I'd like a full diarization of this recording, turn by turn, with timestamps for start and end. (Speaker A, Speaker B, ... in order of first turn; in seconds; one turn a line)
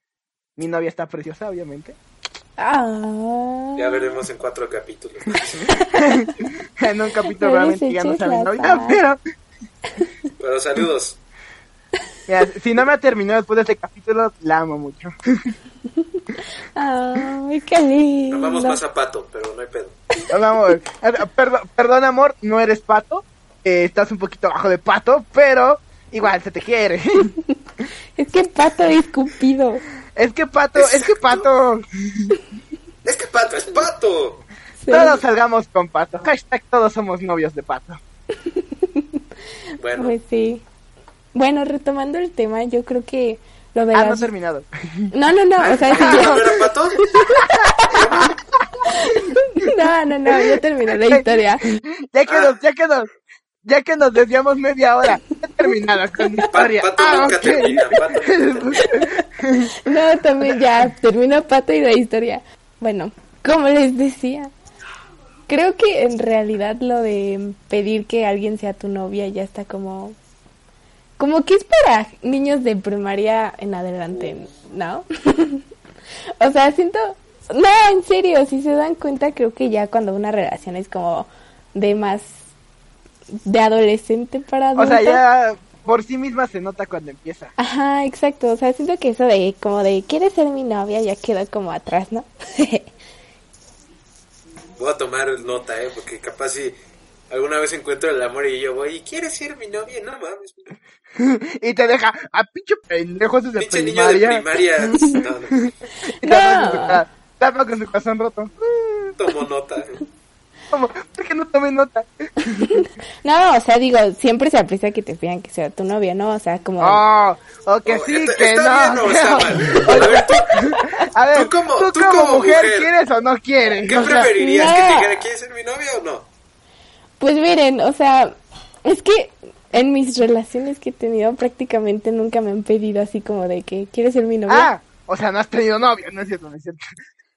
Speaker A: 0.6-2.0
Speaker B: 2.6-4.2
Speaker C: 3.8-5.7
Speaker A: 5.9-9.2
Speaker B: 7.4-9.0
Speaker C: 10.4-11.2
Speaker A: 12.3-15.5
Speaker B: 16.7-18.8
Speaker C: 18.3-19.9
Speaker A: 20.3-27.3
Speaker B: 28.2-29.8
Speaker A: 30.1-32.3
Speaker C: 30.8-31.5
Speaker C: 33.0-34.4
Speaker B: 34.8-35.2
Speaker A: 34.9-38.0
Speaker B: 38.4-39.2
Speaker C: 39.8-40.1
Speaker B: 39.9-40.6
Speaker B: 41.3-44.3
Speaker A: 43.9-45.1
Speaker B: 45.1-48.0
Speaker C: 45.6-47.1
Speaker A: 45.9-46.7
Speaker A: 47.4-48.9
Speaker C: 47.9-48.4
Speaker B: 48.9-51.6
Speaker A: 50.2-53.1
Speaker C: 52.2-52.6
Speaker A: 53.6-59.8
Speaker C: 56.5-59.1
Speaker B: 57.4-57.7
Speaker B: 59.8-64.5
Speaker B: 65.5-70.2
Speaker B: 71.2-75.6
Speaker B: 76.4-82.4
Speaker B: 83.4-85.2
Speaker A: 84.7-87.5
Speaker B: 87.6-92.9
Speaker C: 94.8-96.8
Speaker C: 97.3-100.7
Speaker A: 101.2-109.1
Speaker C: 103.6-105.6
Speaker B: 106.2-107.0
Speaker C: 109.2-110.0
Speaker A: 110.7-112.2
Speaker B: 112.6-117.0
Speaker A: 116.8-124.3
Speaker C: 117.8-120.7
Speaker C: 121.3-122.9
Speaker C: 123.8-126.3
Speaker B: 124.4-125.2
Speaker B: 127.2-134.7
Speaker A: 134.5-136.8